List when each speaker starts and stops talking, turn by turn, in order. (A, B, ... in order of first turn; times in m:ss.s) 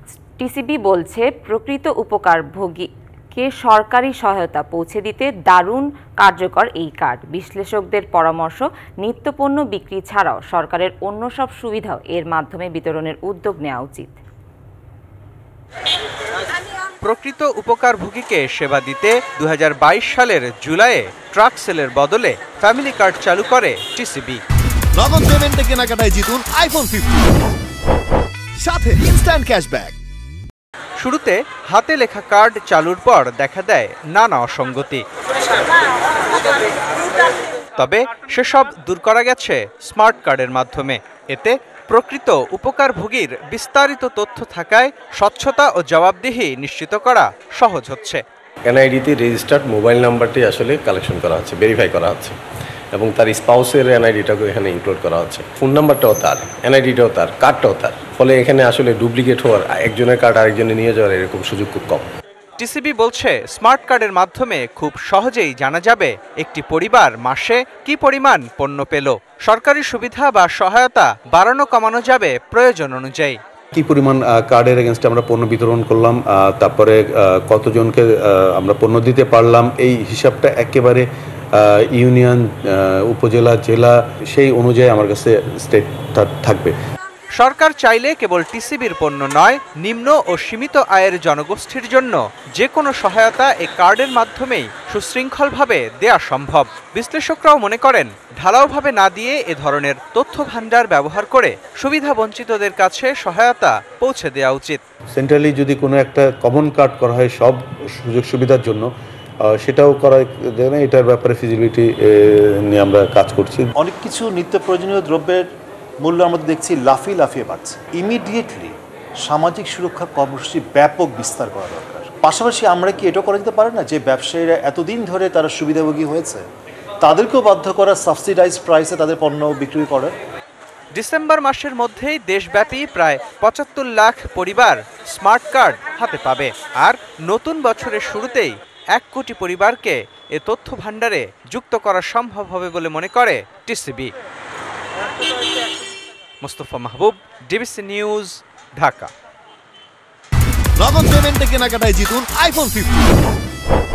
0:00.4-0:14.2 A
0:17.0-0:24.4 B
0:24.9-0:27.4 C
0:28.6-0:30.0 C
0:31.0-0:35.0 B
0:37.8-0:48.2 B
0:48.6-0:52.4 D
0:52.9-1:02.1 D
1:02.6-1:13.4 B
1:13.7-1:26.7 E
1:27.4-1:44.8 B
1:45.1-1:48.9 E
1:49.5-1:53.7 E
1:53.8-1:55.5 F
1:56.0-2:06.4 F
2:07.0-2:10.1 F
2:10.9-2:24.1 B
2:26.4-2:29.1 B
2:30.8-2:33.1 C